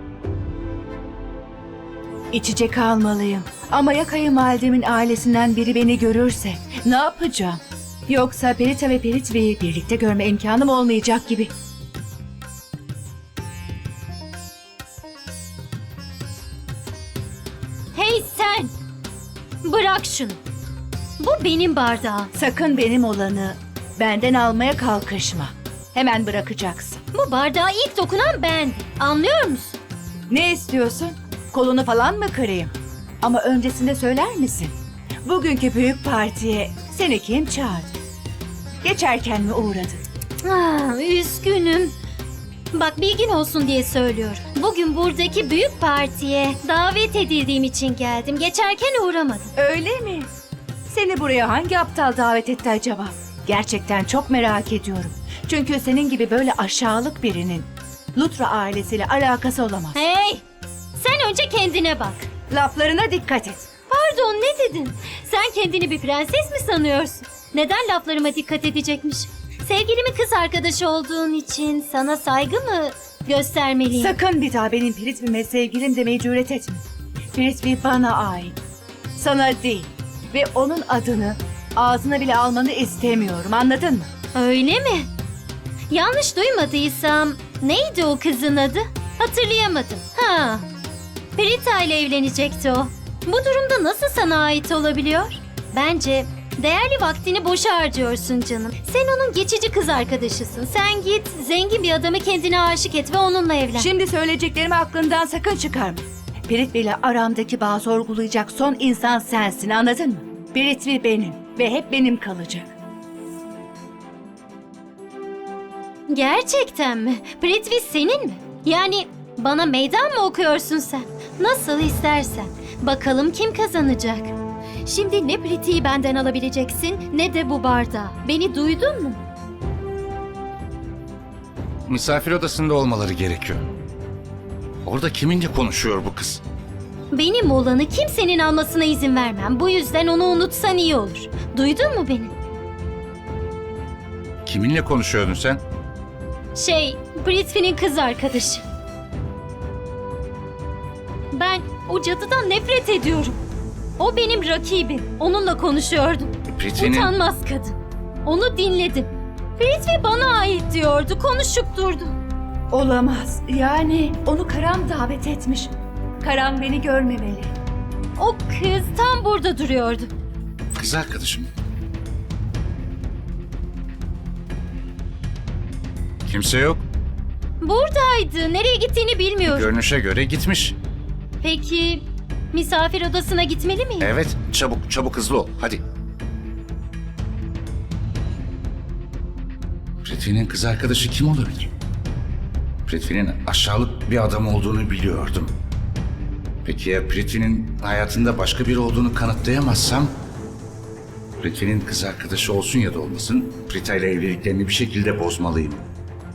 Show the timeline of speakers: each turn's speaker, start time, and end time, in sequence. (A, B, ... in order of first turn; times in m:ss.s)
0:02.3-0:11.5 A
0:17.9-0:18.7 B
0:19.6-0:20.4 B
0:21.2-0:22.3 B
0:22.4-0:27.0 A
0:27.1-0:29.8 B
0:30.3-0:37.9 A
0:38.8-0:40.0 A
0:40.4-0:41.9 B
0:42.7-0:49.5 B
0:49.6-0:50.3 A
0:50.9-1:00.0 A
0:59.9-1:00.4 B
1:01.0-1:02.2 B
1:02.5-1:03.7 A
1:03.9-1:14.2 B
1:14.0-1:18.5 A
1:19.1-1:24.1 A
1:24.3-1:25.1 B
1:25.9-1:30.6 B
1:31.4-1:43.9 B
1:43.8-1:52.7 A
1:56.1-2:04.3 B
2:04.8-2:09.2 B
2:11.9-2:13.6 C
2:14.8-2:16.4 C
2:17.1-2:22.3 B
2:24.4-2:25.6 C
2:26.5-2:28.6 B
2:31.3-2:33.4 B
2:34.0-2:42.2 B
2:36.5-2:37.1 C
2:42.7-2:45.7 A
2:46.2-2:47.5 A
2:48.2-2:50.1 B
2:50.7-2:51.5 C
2:56.2-2:56.8 C
2:57.6-2:59.7 B
2:59.4-3:00.8 C
3:01.4-3:04.1 B
3:04.0-3:05.8 C
3:10.0-3:11.7 C
3:12.9-3:15.5 C
3:16.6-3:20.1 C
3:21.4-3:25.8 C